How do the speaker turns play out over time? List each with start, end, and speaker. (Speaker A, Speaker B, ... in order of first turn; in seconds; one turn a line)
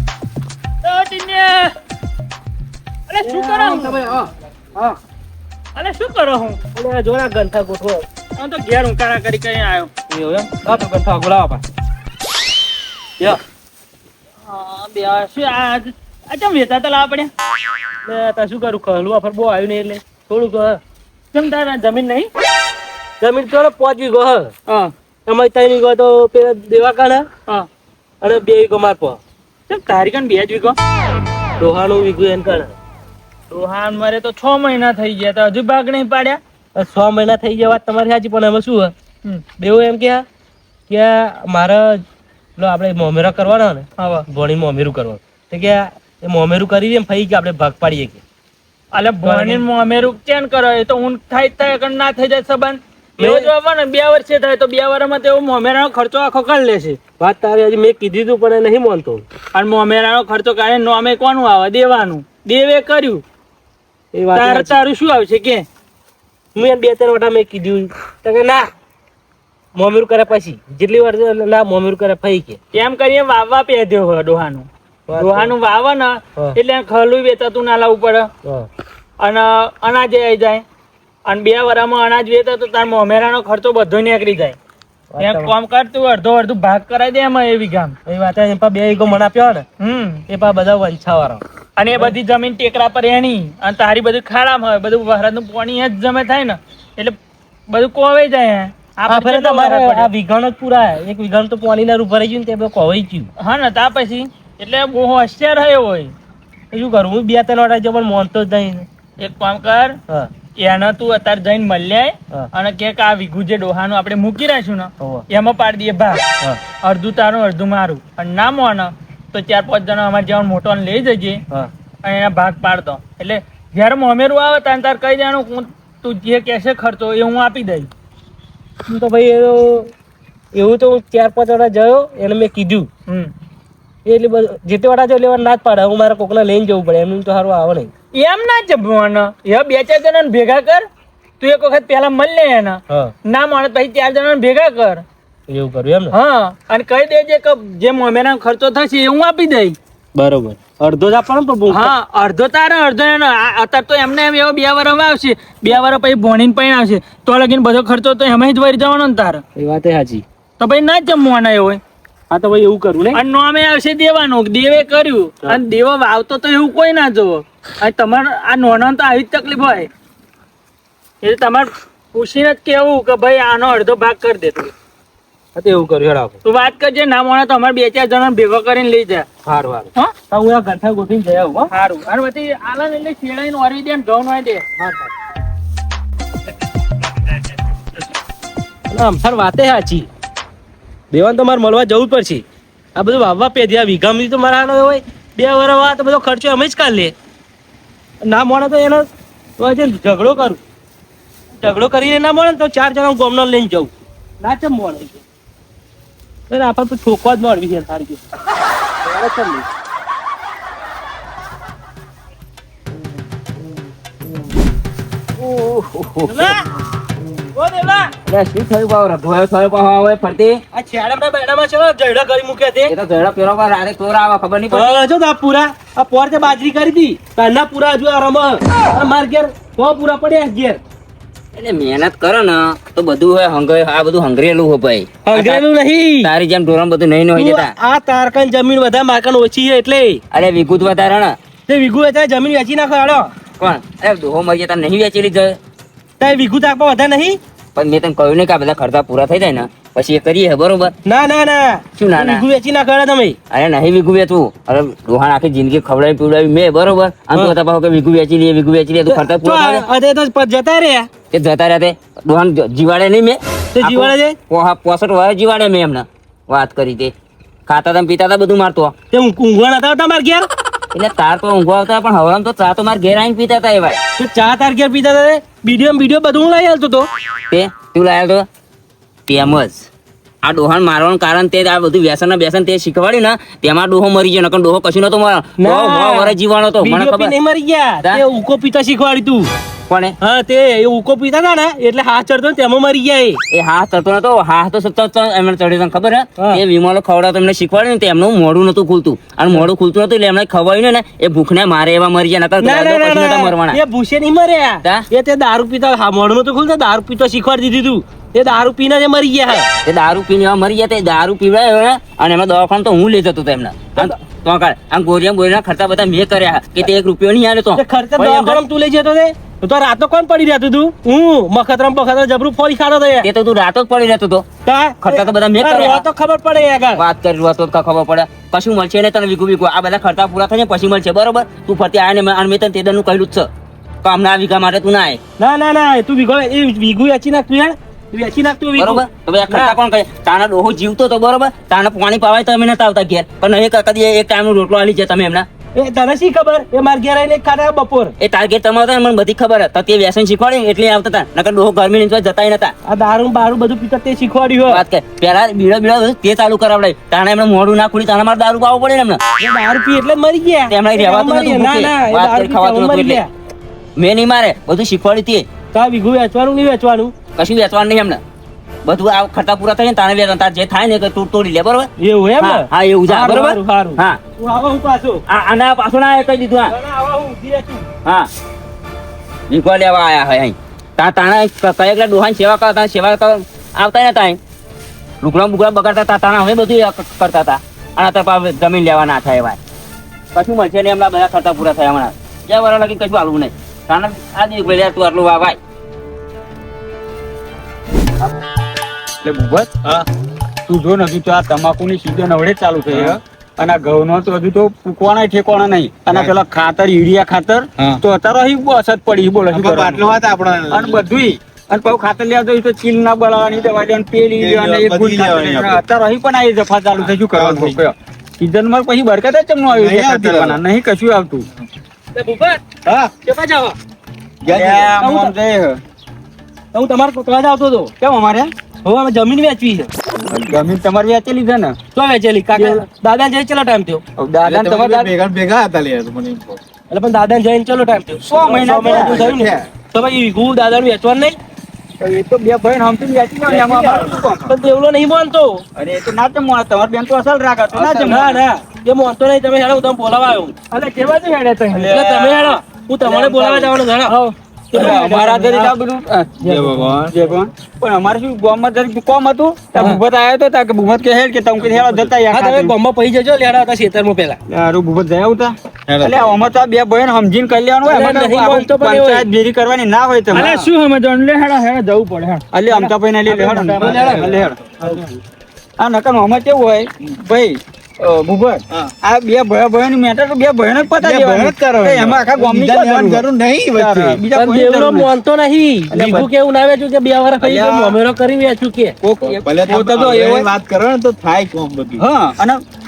Speaker A: 0.8-1.7
Speaker A: 3.1-4.0
Speaker B: 3.2-5.0
Speaker A: 5.8-6.6
Speaker B: 6.8-8.1
Speaker A: 8.4-9.9
Speaker B: 10.1-11.6
Speaker A: 14.5-17.3
Speaker B: 18.1-20.8
Speaker A: 21.3-22.3
Speaker B: 23.2-24.5
Speaker A: 24.7-24.9
Speaker B: 25.3-27.3
Speaker B: 28.2-29.2
Speaker A: 29.7-30.8
Speaker B: 31.6-32.7
Speaker A: 33.5-36.4
Speaker B: 36.8-38.9
Speaker B: 39.6-40.2
Speaker B: 40.9-42.0
Speaker B: 42.6-48.2
Speaker A: 44.0-44.3
Speaker A: 48.9-57.0
Speaker B: 49.2-49.6
Speaker B: 53.2-53.5
Speaker B: 57.2-59.2
Speaker A: 59.5-63.2
Speaker B: 64.1-64.8
Speaker A: 64.3-65.7
Speaker B: 66.5-68.7
Speaker B: 69.8-72.6
Speaker A: 72.7-78.3
Speaker B: 75.1-75.5
Speaker A: 79.2-80.6
Speaker A: 81.3-84.6
Speaker B: 85.1-85.5
Speaker A: 85.2-88.0
Speaker B: 88.1-89.7
Speaker A: 89.8-90.3
Speaker B: 90.3-91.4
Speaker A: 91.8-97.2
Speaker A: 97.7-100.1
Speaker B: 99.1-103.3
Speaker A: 103.4-106.1
Speaker B: 106.7-108.9
Speaker A: 109.2-110.0
Speaker A: 110.6-116.3
Speaker B: 115.0-115.3
Speaker A: 116.8-121.4
Speaker A: 122.0-127.9
Speaker B: 128.9-129.9
Speaker B: 130.5-132.9
Speaker B: 134.1-137.9
Speaker A: 138.1-140.9
Speaker A: 141.4-145.0
Speaker B: 145.5-146.2
Speaker A: 146.1-149.8
Speaker B: 150.2-151.9
Speaker A: 151.7-159.4
Speaker B: 159.6-160.2
Speaker A: 160.6-161.8
Speaker B: 162.3-163.2
Speaker A: 163.1-169.9
Speaker A: 171.2-174.7
Speaker B: 175.6-176.4
Speaker A: 176.4-179.3
Speaker B: 179.4-181.7
Speaker A: 181.7-184.7
Speaker B: 184.8-185.1
Speaker B: 188.9-190.1
Speaker B: 191.1-192.4
Speaker B: 193.0-197.1
Speaker B: 198.2-199.1
Speaker B: 199.6-200.6
Speaker B: 201.6-203.9
Speaker B: 204.4-205.2
Speaker B: 206.5-208.2
Speaker B: 209.1-209.7
Speaker C: 215.4-216.6
Speaker B: 216.2-216.7
Speaker B: 217.6-218.1
Speaker C: 218.3-220.6
Speaker B: 220.7-222.9
Speaker C: 222.9-225.0
Speaker B: 224.7-230.8
Speaker C: 231.5-235.7
Speaker B: 235.2-236.3
Speaker C: 236.2-237.7
Speaker B: 237.3-240.2
Speaker C: 240.3-241.4
Speaker B: 241.7-243.3
Speaker C: 243.6-245.6
Speaker B: 246.2-247.4
Speaker C: 247.8-250.9
Speaker B: 251.1-253.4
Speaker C: 252.0-252.4
Speaker C: 253.5-259.9
Speaker B: 259.1-261.1
Speaker C: 261.3-267.1
Speaker B: 263.8-264.4
Speaker C: 267.7-268.9
Speaker B: 269.1-270.5
Speaker C: 270.9-274.0
Speaker B: 274.2-277.1
Speaker C: 277.5-278.5
Speaker C: 279.3-279.9
Speaker C: 280.4-287.4
Speaker B: 285.6-289.5
Speaker C: 289.9-290.1
Speaker B: 290.2-293.4
Speaker C: 293.5-303.8
Speaker B: 296.4-296.6
Speaker B: 302.6-309.7
Speaker C: 309.9-318.6
Speaker B: 317.8-323.3
Speaker C: 323.2-324.5
Speaker B: 324.6-327.0
Speaker C: 325.0-326.0
Speaker C: 326.9-333.5
Speaker C: 334.0-335.2
Speaker B: 335.4-339.8
Speaker C: 338.8-345.5
Speaker B: 345.8-348.1
Speaker C: 348.2-352.7
Speaker B: 352.9-354.8
Speaker C: 354.7-359.2
Speaker B: 359.4-363.3
Speaker C: 360.7-363.2
Speaker C: 364.0-365.5
Speaker B: 365.7-367.1
Speaker C: 367.4-368.2
Speaker C: 368.9-374.2
Speaker B: 372.0-375.2
Speaker C: 375.3-376.7
Speaker B: 376.7-377.9
Speaker C: 379.5-384.4
Speaker C: 385.2-389.6
Speaker C: 390.3-395.6
Speaker D: 399.2-399.7
Speaker D: 400.7-410.0
Speaker E: 402.9-403.2
Speaker E: 409.5-411.1
Speaker D: 410.7-421.5
Speaker E: 414.4-415.8
Speaker E: 417.0-417.8
Speaker E: 419.7-420.6
Speaker B: 422.1-423.8
Speaker E: 424.4-425.0
Speaker D: 424.5-425.8
Speaker B: 425.0-425.3
Speaker B: 426.7-427.9
Speaker D: 428.0-428.5
Speaker B: 428.9-429.9
Speaker D: 430.2-431.8
Speaker B: 431.9-434.0
Speaker D: 432.5-432.8
Speaker D: 434.2-435.1
Speaker E: 434.4-436.6
Speaker B: 436.9-441.4
Speaker D: 438.3-439.2
Speaker E: 438.5-439.7
Speaker D: 442.0-444.6
Speaker B: 443.5-445.6
Speaker D: 445.8-448.4
Speaker B: 447.7-450.5
Speaker A: 450.7-451.9
Speaker D: 451.7-453.7
Speaker B: 451.9-454.1
Speaker A: 454.1-455.0
Speaker D: 454.7-456.4
Speaker B: 454.7-455.7
Speaker B: 456.4-457.0
Speaker E: 456.4-457.1
Speaker D: 457.1-462.8
Speaker B: 461.7-464.4
Speaker D: 464.5-470.7
Speaker E: 465.9-466.3
Speaker B: 467.8-469.3
Speaker A: 470.3-474.1
Speaker D: 472.5-474.6
Speaker B: 473.5-474.3
Speaker E: 473.8-475.0
Speaker D: 475.8-485.1
Speaker E: 481.0-484.2
Speaker B: 484.3-489.0
Speaker D: 485.9-486.3
Speaker D: 487.4-488.0
Speaker D: 489.0-490.5
Speaker E: 489.4-492.1
Speaker D: 492.0-492.6